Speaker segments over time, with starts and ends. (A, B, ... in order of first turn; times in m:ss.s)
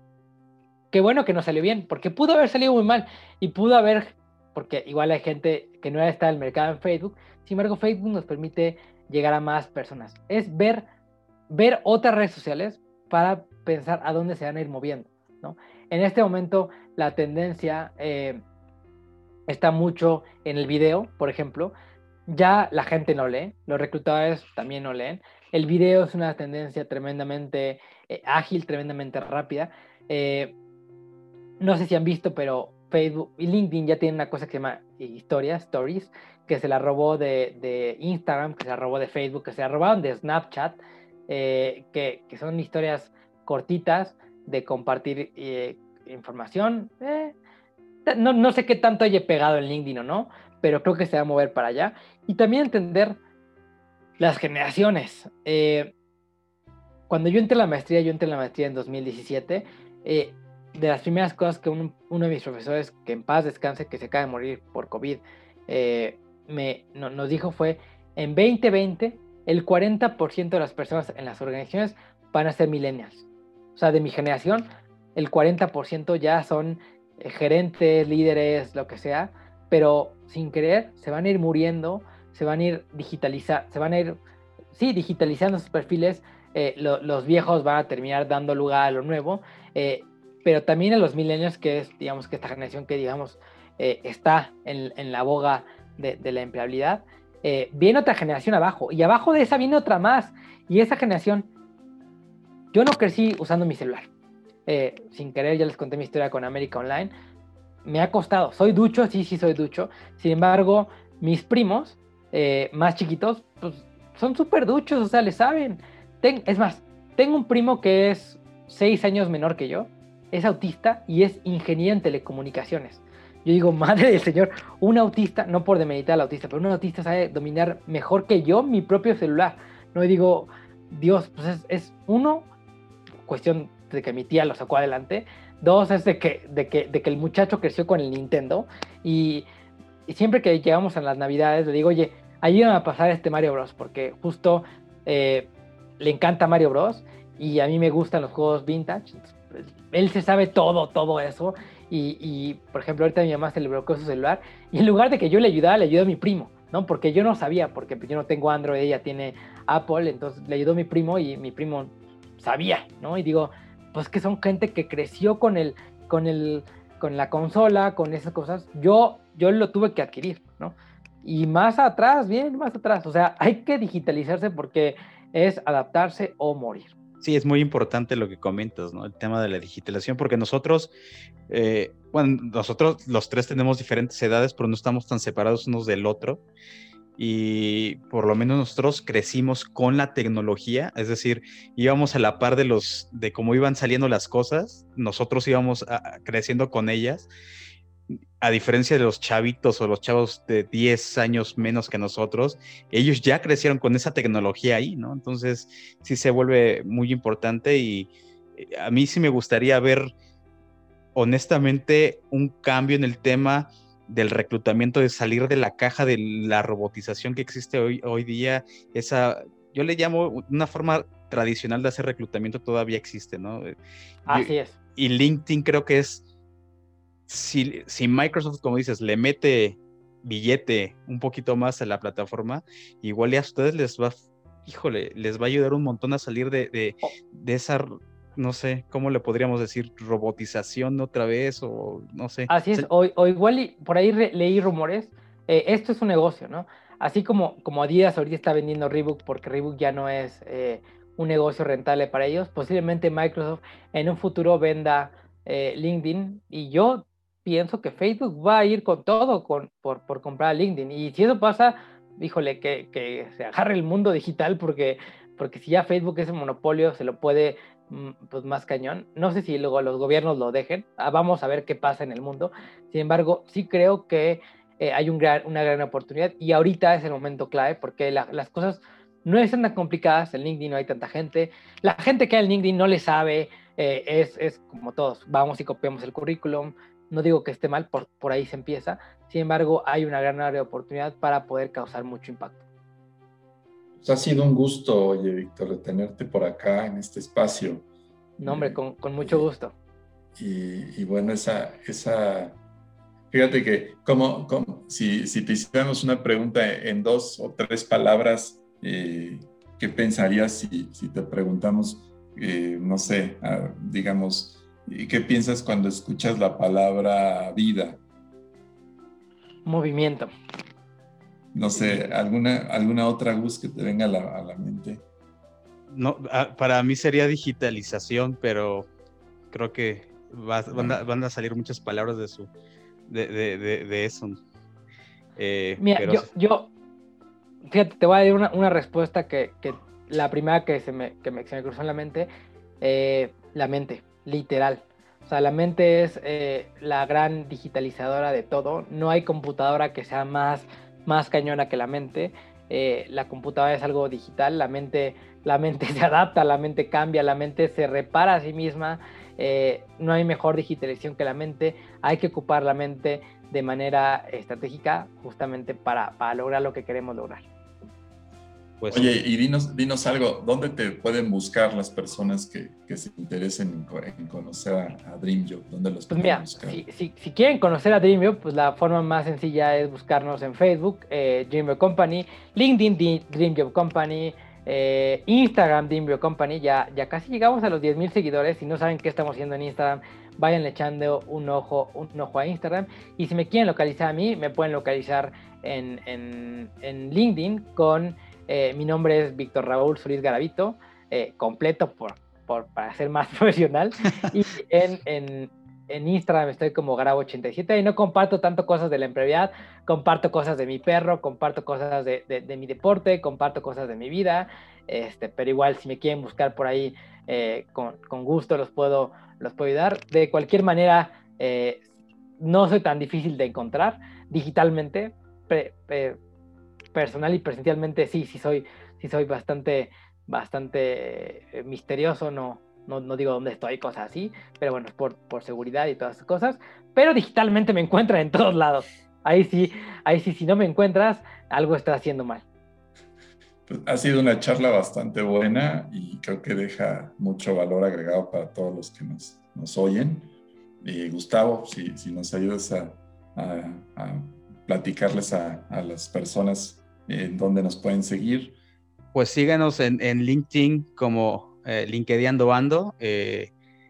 0:00.9-0:10.9 A
0:11.5-0:18.4 A
0:19.5-0:21.7 A
0:22.3-0:30.5 A
0:31.6-0:47.3 A
0:48.0-0:53.2 A
0:54.2-0:55.9 A
0:57.1-1:13.2 A
1:13.8-1:24.2 A
1:24.7-1:41.5 A
1:42.7-1:44.1 A
1:44.7-1:47.1 A
1:47.8-2:12.5 A
2:13.2-2:19.4 A
2:20.1-2:25.5 A
2:26.0-2:56.9 A
2:57.2-3:00.9 B
3:01.5-3:06.4 B
3:07.2-3:17.3 B
3:18.4-3:30.1 B
3:31.1-3:43.7 B
3:44.2-3:46.2 B
3:44.3-3:44.7 A
3:47.3-4:02.9 B
4:02.5-4:52.6 A
4:54.0-4:57.8 C
4:58.4-4:59.5 C
4:58.4-4:59.7 A
5:00.4-5:02.6 C
5:03.3-5:18.0 C
5:19.6-5:20.3 A
5:21.5-5:25.0 C
5:25.9-5:28.9 B
5:29.5-5:32.5 B
5:30.7-5:31.0 C
5:33.1-5:34.4 B
5:35.4-5:36.3 B
5:35.8-5:36.7 A
5:37.7-5:42.3 A
5:42.8-6:07.4 A
6:08.8-6:09.1 B
6:08.9-6:16.8 C
6:16.1-7:01.8 A
7:02.4-7:06.2 A
7:06.9-7:22.4 A
7:23.7-7:30.3 C
7:30.8-7:38.6 C
7:39.1-7:43.5 B